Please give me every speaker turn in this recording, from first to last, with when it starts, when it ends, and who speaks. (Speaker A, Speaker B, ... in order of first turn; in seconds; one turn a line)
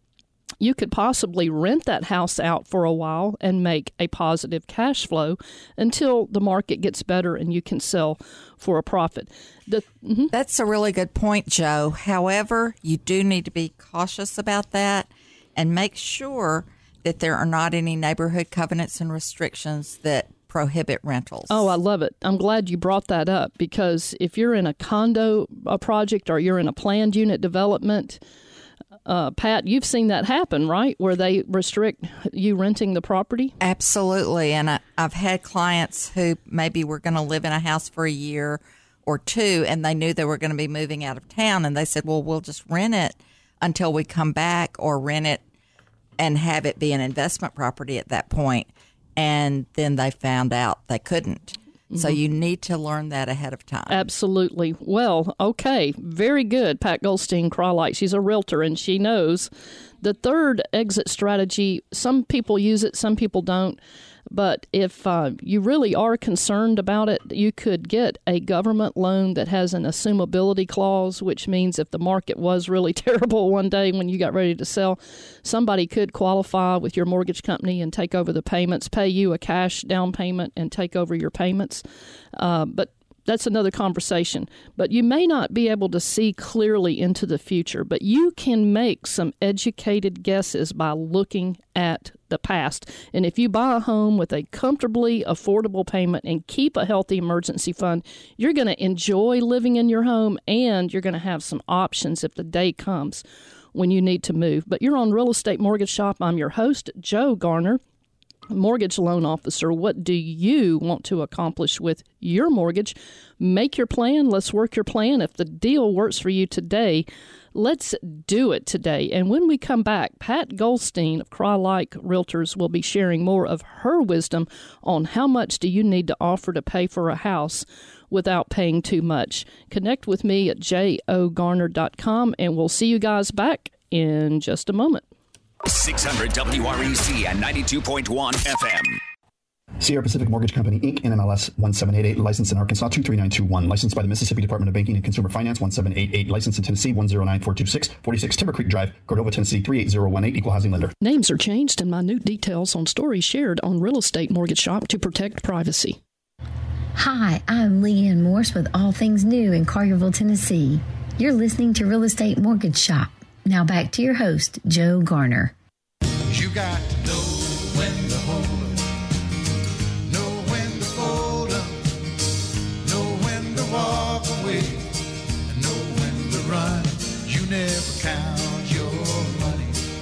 Speaker A: 0.6-10.3
Speaker B: 10.3-21.7
Speaker A: 21.5-28.2
Speaker A: 29.1-33.5
Speaker B: 33.6-45.4
Speaker B: 46.2-54.0
Speaker A: 51.9-52.2
Speaker A: 53.9-59.5
Speaker A: 60.0-63.8
Speaker A: 64.3-81.8
Speaker A: 82.3-103.2
Speaker A: 103.7-107.8
Speaker A: 108.5-135.0
Speaker C: 135.6-139.0
Speaker D: 139.8-150.9
Speaker A: 151.0-156.0
Speaker E: 156.9-165.5
Speaker F: 166.3-169.0
Speaker F: 170.1-171.9
Speaker F: 172.8-179.8